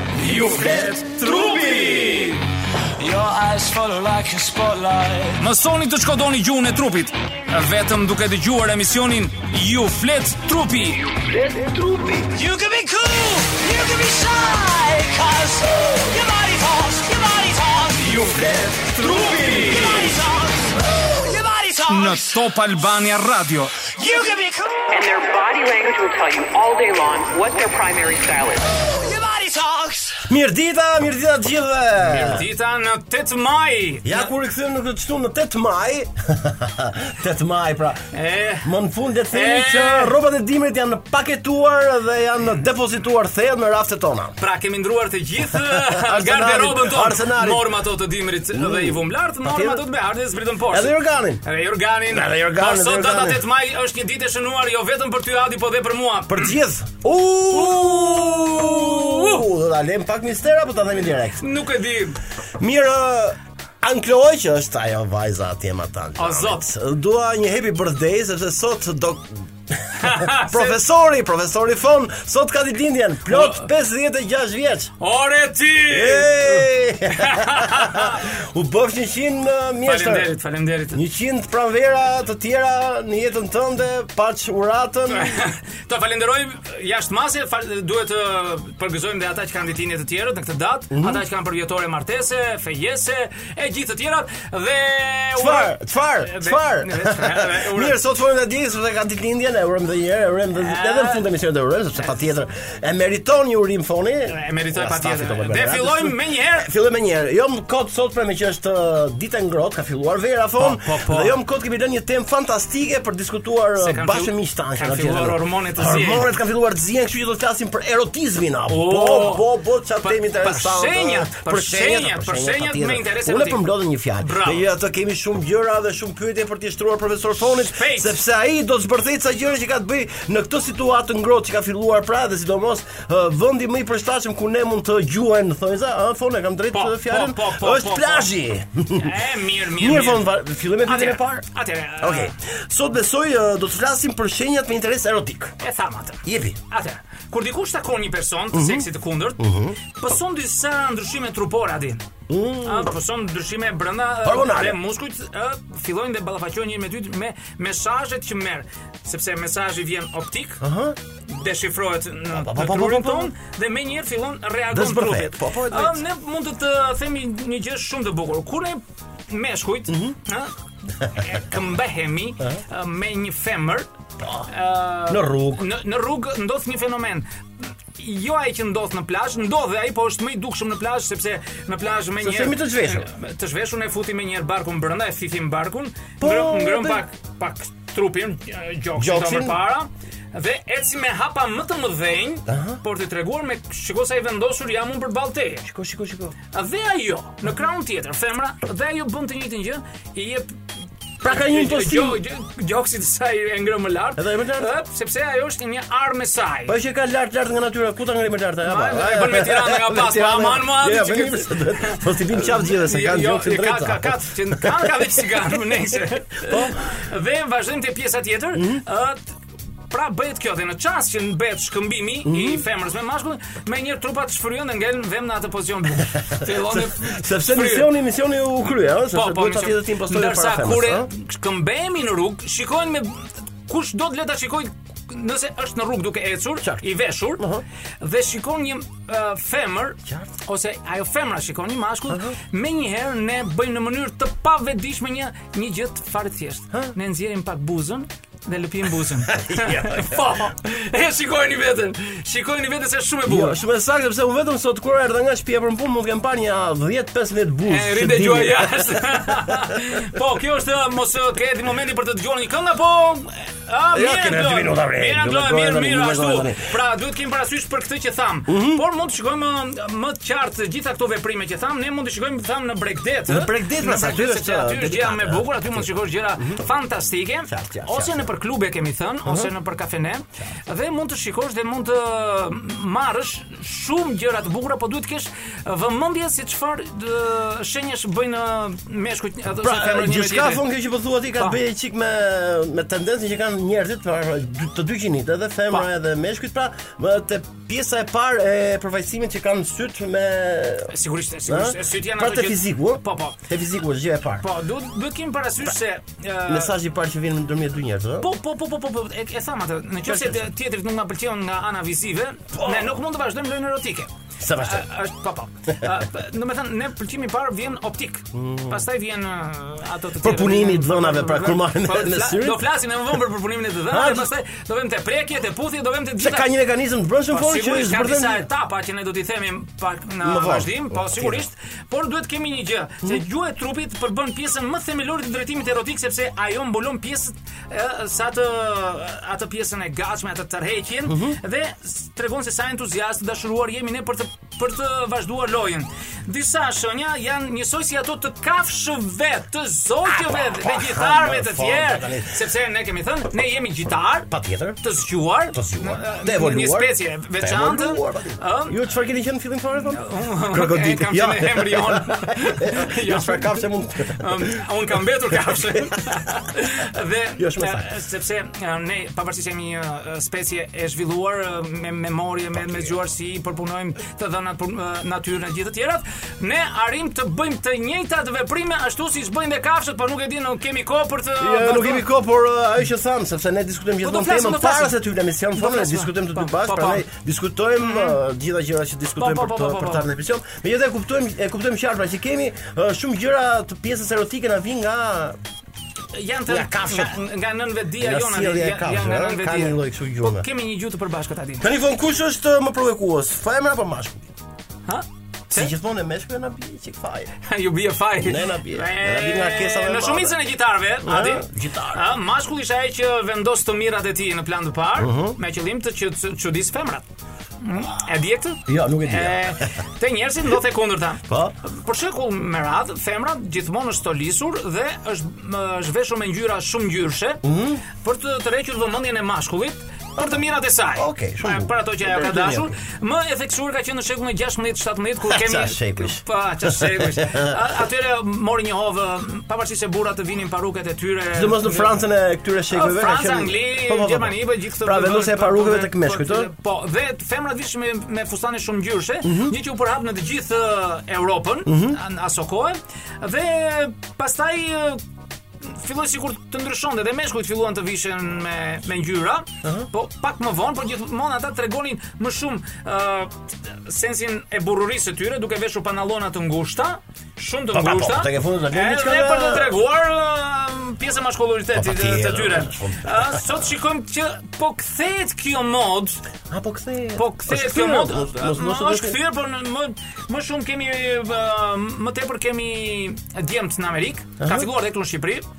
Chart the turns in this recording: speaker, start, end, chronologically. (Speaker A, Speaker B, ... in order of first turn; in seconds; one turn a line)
Speaker A: 0.2-2.4
Speaker B: 0.3-0.9
Speaker C: 0.6-1.6
Speaker B: 3.0-5.4
Speaker C: 5.4-11.2
Speaker A: 11.3-12.3
Speaker B: 12.3-22.4
Speaker A: 18.1-20.1
Speaker C: 21.9-23.9
Speaker B: 23.9-25.1
Speaker D: 24.9-28.6
Speaker B: 28.7-30.3
Speaker A: 30.3-32.5
Speaker C: 32.0-34.3
Speaker A: 34.0-38.0
Speaker C: 38.1-38.7
Speaker A: 38.6-44.4
Speaker C: 39.3-40.1
Speaker C: 44.4-56.5
Speaker A: 45.5-47.7
Speaker A: 48.5-49.8
Speaker A: 50.7-51.4
Speaker A: 52.1-53.4
Speaker A: 56.3-61.4
Speaker C: 57.5-59.5
Speaker C: 61.4-62.2
Speaker A: 62.6-74.9
Speaker C: 66.2-66.7
Speaker C: 70.0-70.8
Speaker C: 73.3-73.7
Speaker C: 75.0-78.3
Speaker A: 75.9-80.3
Speaker C: 79.8-81.0
Speaker A: 80.9-85.4
Speaker C: 85.1-98.0
Speaker A: 90.9-91.2
Speaker A: 95.3-139.2
Speaker C: 100.5-101.2
Speaker C: 104.3-106.7
Speaker C: 110.6-111.3
Speaker C: 113.8-116.3
Speaker C: 118.7-119.5
Speaker C: 120.0-123.7
Speaker C: 124.2-124.7
Speaker C: 127.4-128.2
Speaker C: 136.7-138.3
Speaker C: 138.9-140.3
Speaker A: 139.8-141.4
Speaker C: 140.8-142.3
Speaker A: 142.0-145.6
Speaker C: 145.6-152.0
Speaker A: 146.2-146.6
Speaker A: 148.5-148.9
Speaker A: 149.4-149.8
Speaker A: 152.3-152.9
Speaker C: 152.6-160.6
Speaker A: 154.2-154.8
Speaker A: 160.6-161.0
Speaker C: 161.2-173.9
Speaker A: 162.3-163.3
Speaker A: 164.7-166.0
Speaker A: 169.9-170.2
Speaker A: 174.2-174.5
Speaker C: 174.5-195.7
Speaker A: 175.1-175.7
Speaker A: 182.2-183.1
Speaker A: 186.2-187.0
Speaker A: 188.9-189.6
Speaker A: 192.5-192.8
Speaker A: 195.6-196.3
Speaker C: 196.5-200.6
Speaker C: 201.2-206.8
Speaker A: 201.2-202.2
Speaker A: 204.2-204.7
Speaker A: 206.7-215.1
Speaker C: 208.6-219.2
Speaker A: 216.4-216.8
Speaker A: 218.5-218.8
Speaker C: 219.9-227.9
Speaker A: 222.2-222.6
Speaker A: 226.1-231.1
Speaker C: 229.1-237.4
Speaker A: 237.4-237.6
Speaker C: 238.0-253.6
Speaker A: 242.1-242.3
Speaker A: 249.2-250.3
Speaker A: 253.2-259.8
Speaker C: 257.6-290.6
Speaker A: 263.9-266.7
Speaker A: 268.5-268.8
Speaker A: 273.3-276.6
Speaker A: 277.5-278.3
Speaker A: 279.2-279.5
Speaker A: 289.5-300.9
Speaker C: 300.9-303.4
Speaker A: 301.4-304.4
Speaker C: 304.4-306.7
Speaker A: 306.5-308.3
Speaker C: 308.2-326.5
Speaker A: 310.0-310.4
Speaker A: 312.5-312.9
Speaker A: 314.4-314.9
Speaker A: 318.3-318.8
Speaker A: 320.2-322.6
Speaker A: 323.9-324.3
Speaker A: 326.2-328.4
Speaker C: 327.3-354.3
Speaker A: 330.2-331.4
Speaker A: 341.1-341.4
Speaker A: 350.0-352.4
Speaker A: 354.3-354.8
Speaker C: 354.8-358.8
Speaker A: 355.5-364.6
Speaker C: 359.9-382.1
Speaker A: 365.4-366.3
Speaker A: 367.4-367.9
Speaker A: 372.5-372.9
Speaker A: 381.4-395.4
Speaker C: 384.0-385.0
Speaker C: 385.5-387.0
Speaker C: 387.8-388.2
Speaker C: 389.2-390.0
Speaker C: 396.1-401.6
Speaker A: 396.5-397.2
Speaker A: 398.0-400.4
Speaker A: 401.6-404.3
Speaker C: 404.9-405.7
Speaker A: 405.5-407.3
Speaker C: 407.4-417.0
Speaker A: 408.2-410.4
Speaker A: 411.0-412.1
Speaker A: 415.0-415.4
Speaker C: 417.6-427.4
Speaker A: 418.7-419.7
Speaker A: 421.3-421.5
Speaker A: 427.4-427.8
Speaker C: 427.9-441.9
Speaker A: 430.9-432.8
Speaker A: 435.3-437.6
Speaker A: 441.3-446.5
Speaker C: 442.7-455.0
Speaker A: 449.2-449.6
Speaker A: 451.6-452.0
Speaker C: 455.6-476.2
Speaker A: 459.6-459.9
Speaker A: 467.7-469.8
Speaker A: 471.7-473.7
Speaker A: 476.5-479.2
Speaker C: 477.1-485.4
Speaker A: 484.4-484.7